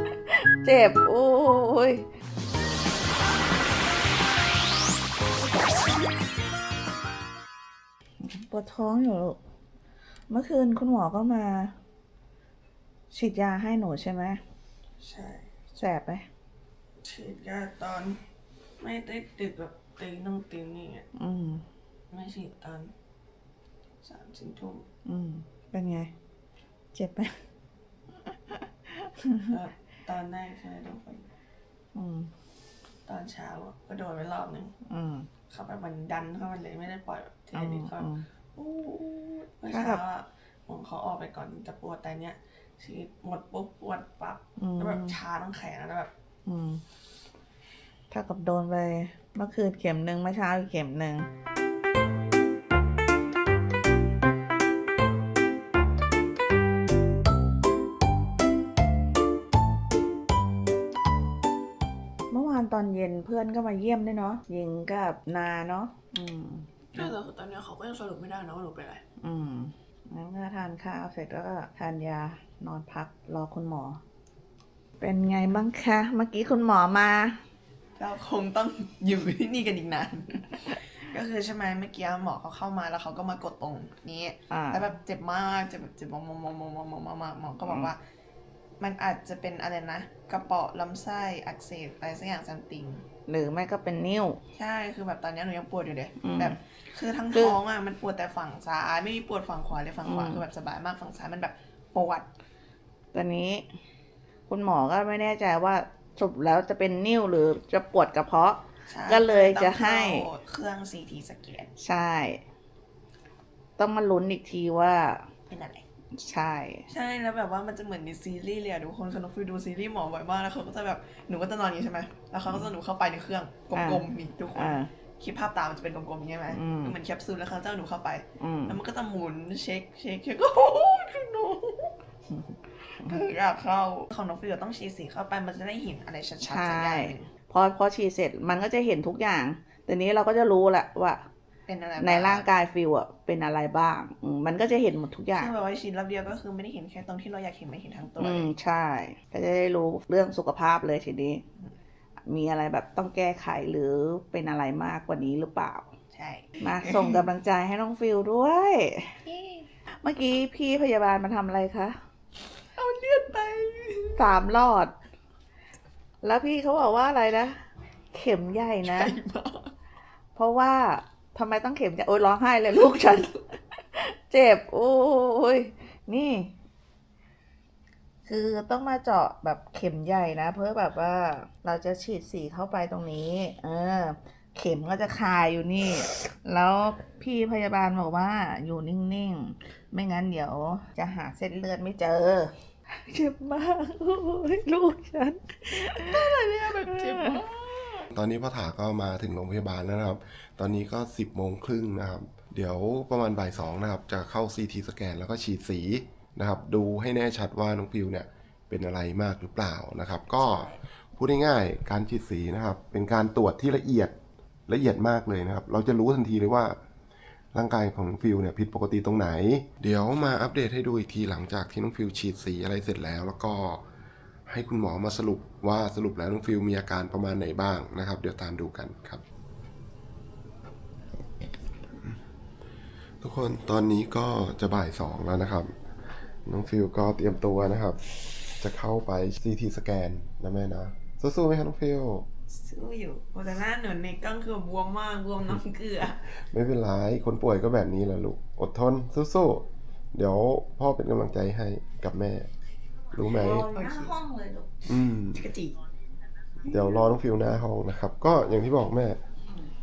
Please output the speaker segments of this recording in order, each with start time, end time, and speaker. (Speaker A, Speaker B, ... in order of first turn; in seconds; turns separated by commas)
Speaker A: 0.3-2.0, Speaker A: 8.2-9.4, Speaker A: 10.3-11.7, Speaker A: 13.1-14.4, Speaker B: 15.0-15.5, Speaker A: 15.7-16.3, Speaker B: 17.0-18.2, Speaker B: 18.8-21.0, Speaker A: 21.1-21.6, Speaker B: 22.1-22.9, Speaker B: 24.0-24.9, Speaker A: 25.1-26.1, Speaker A: 26.9-27.4, Speaker A: 28.9-29.5, Speaker B: 29.5-31.3, Speaker A: 31.9-32.3, Speaker B: 33.1-34.7, Speaker A: 34.9-35.3, Speaker B: 35.5-46.1, Speaker A: 37.5-38.2, Speaker A: 39.7-40.0, Speaker A: 44.6-45.2, Speaker A: 46.5-46.8, Speaker A: 48.1-51.3, Speaker A: 62.3-67.1, Speaker B: 66.9-69.0, Speaker A: 69.2-74.0, Speaker A: 75.0-77.4, Speaker B: 78.0-88.0, Speaker A: 84.5-84.9, Speaker B: 88.8-93.0, Speaker A: 93.3-94.4, Speaker B: 94.5-102.3, Speaker A: 96.2-96.6, Speaker A: 97.3-97.6, Speaker A: 100.0-100.4, Speaker A: 103.1-103.7, Speaker A: 104.5-110.3, Speaker B: 108.9-111.7, Speaker A: 111.8-112.4, Speaker A: 113.8-115.3, Speaker B: 115.5-115.8, Speaker A: 116.1-116.8, Speaker B: 116.9-132.0, Speaker A: 123.7-124.9, Speaker A: 126.5-127.0, Speaker A: 128.4-128.8, Speaker B: 132.9-137.3, Speaker A: 136.4-141.3, Speaker B: 141.7-142.5, Speaker A: 142.0-145.5, Speaker B: 145.3-148.5, Speaker A: 148.2-151.4, Speaker A: 152.2-155.9, Speaker B: 156.1-157.3, Speaker A: 156.6-159.2, Speaker B: 159.2-159.6, Speaker A: 160.0-162.0, Speaker B: 162.7-164.3, Speaker A: 164.2-164.9, Speaker A: 166.2-167.6, Speaker A: 168.1-169.1, Speaker B: 168.8-169.7, Speaker A: 170.3-176.5, Speaker A: 178.2-197.4, Speaker B: 195.8-198.1, Speaker C: 198.1-214.1, Speaker A: 210.3-210.8, Speaker C: 214.7-216.8, Speaker C: 217.5-223.8, Speaker C: 224.5-229.2, Speaker C: 233.2-235.7, Speaker C: 236.4-238.0, Speaker C: 238.6-242.3, Speaker B: 242.5-246.2, Speaker C: 246.4-252.5, Speaker C: 253.1-253.7, Speaker A: 253.2-254.9, Speaker B: 253.6-254.2, Speaker C: 254.9-255.4, Speaker B: 255.3-255.8, Speaker C: 256.6-259.2